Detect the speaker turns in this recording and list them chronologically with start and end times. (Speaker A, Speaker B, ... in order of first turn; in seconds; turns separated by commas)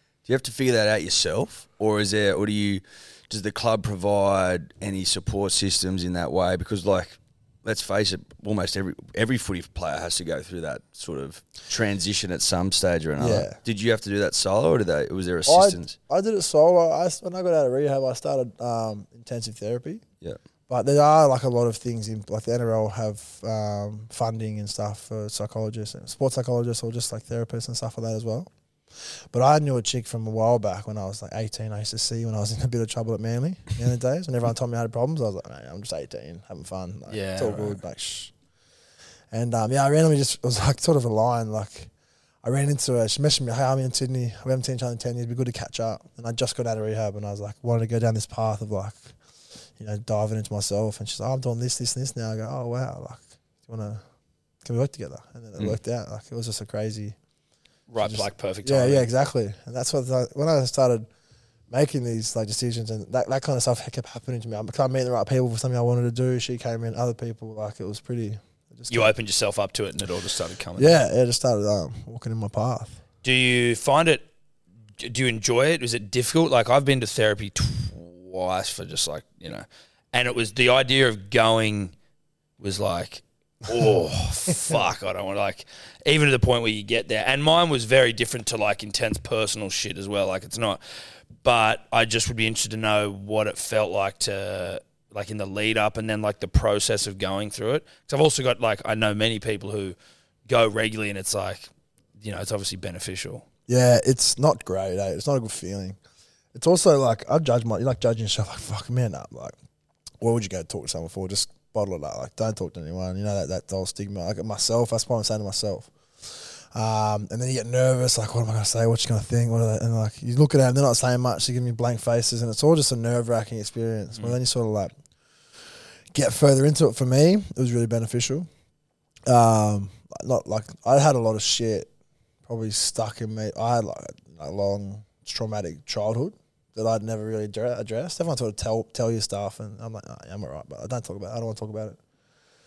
Speaker A: 0.3-16.0, Speaker B: 13.2-13.6, Speaker B: 15.5-20.0, Speaker B: 20.7-28.5, Speaker B: 29.3-38.3, Speaker C: 37.1-37.8, Speaker B: 39.3-41.9, Speaker B: 42.4-49.1, Speaker B: 49.8-54.0, Speaker B: 54.6-57.2, Speaker C: 57.9-59.1, Speaker B: 58.0-61.1, Speaker B: 61.7-69.1, Speaker C: 68.9-71.0, Speaker B: 70.8-73.0, Speaker C: 73.2-74.2, Speaker C: 75.0-81.9, Speaker C: 82.6-90.8, Speaker C: 91.4-100.0, Speaker C: 100.5-101.7, Speaker C: 102.2-103.5, Speaker B: 103.7-106.0, Speaker B: 106.5-109.5, Speaker B: 110.2-124.9, Speaker B: 126.1-128.5, Speaker B: 129.3-131.9, Speaker B: 132.5-142.0